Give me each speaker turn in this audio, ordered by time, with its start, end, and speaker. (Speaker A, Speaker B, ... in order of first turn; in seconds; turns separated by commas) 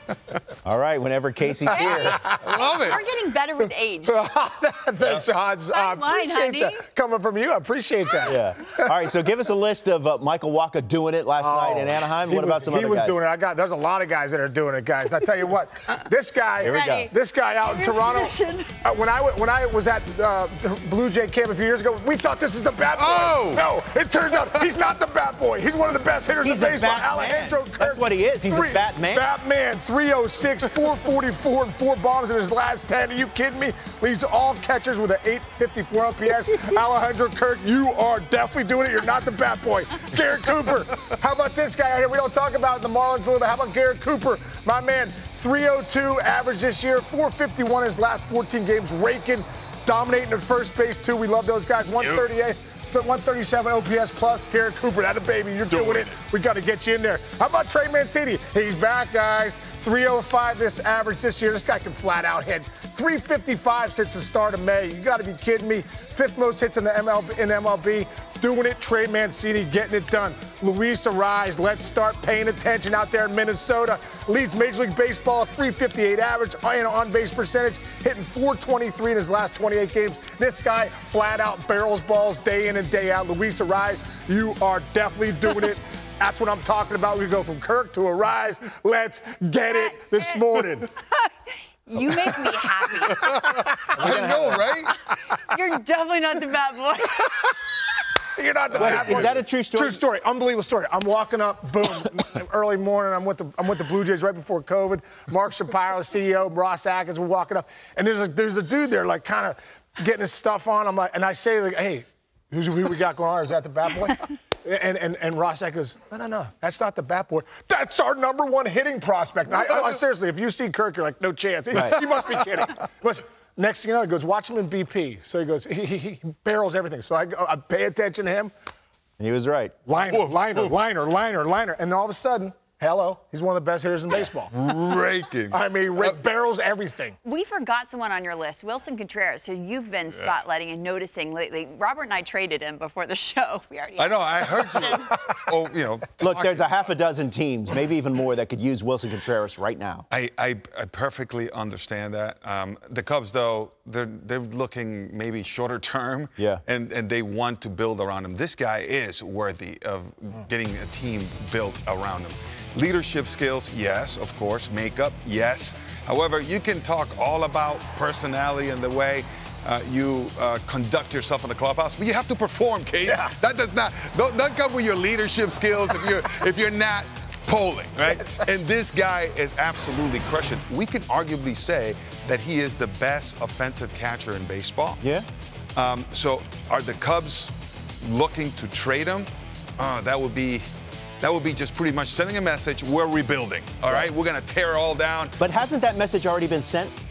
Speaker A: 0.6-2.3, Speaker B: 1.7-4.2, Speaker C: 1.9-2.3, Speaker D: 2.4-3.0, Speaker C: 4.1-8.9, Speaker D: 5.0-5.3, Speaker B: 5.7-6.8, Speaker A: 8.2-13.2, Speaker C: 11.4-90.9, Speaker A: 16.6-17.1, Speaker B: 16.6-18.7, Speaker D: 22.9-23.7, Speaker A: 26.4-29.3, Speaker D: 52.0-52.3, Speaker D: 55.7-56.1, Speaker B: 91.9-93.4, Speaker C: 93.1-94.0, Speaker D: 93.2-94.9, Speaker A: 94.0-94.7, Speaker B: 95.4-97.5, Speaker C: 98.4-128.5, Speaker D: 98.7-99.4, Speaker A: 98.8-100.0, Speaker A: 121.7-122.0, Speaker A: 129.2-129.8, Speaker C: 129.9-134.5, Speaker D: 130.1-130.7, Speaker D: 134.5-136.2, Speaker C: 135.5-137.2, Speaker B: 137.2-145.1, Speaker D: 144.0-146.9, Speaker A: 146.2-150.1, Speaker D: 150.1-185.0, Speaker A: 156.4-156.6, Speaker C: 173.1-173.3, Speaker A: 185.0-185.3, Speaker D: 185.8-190.7, Speaker D: 191.2-195.4, Speaker A: 195.4-197.0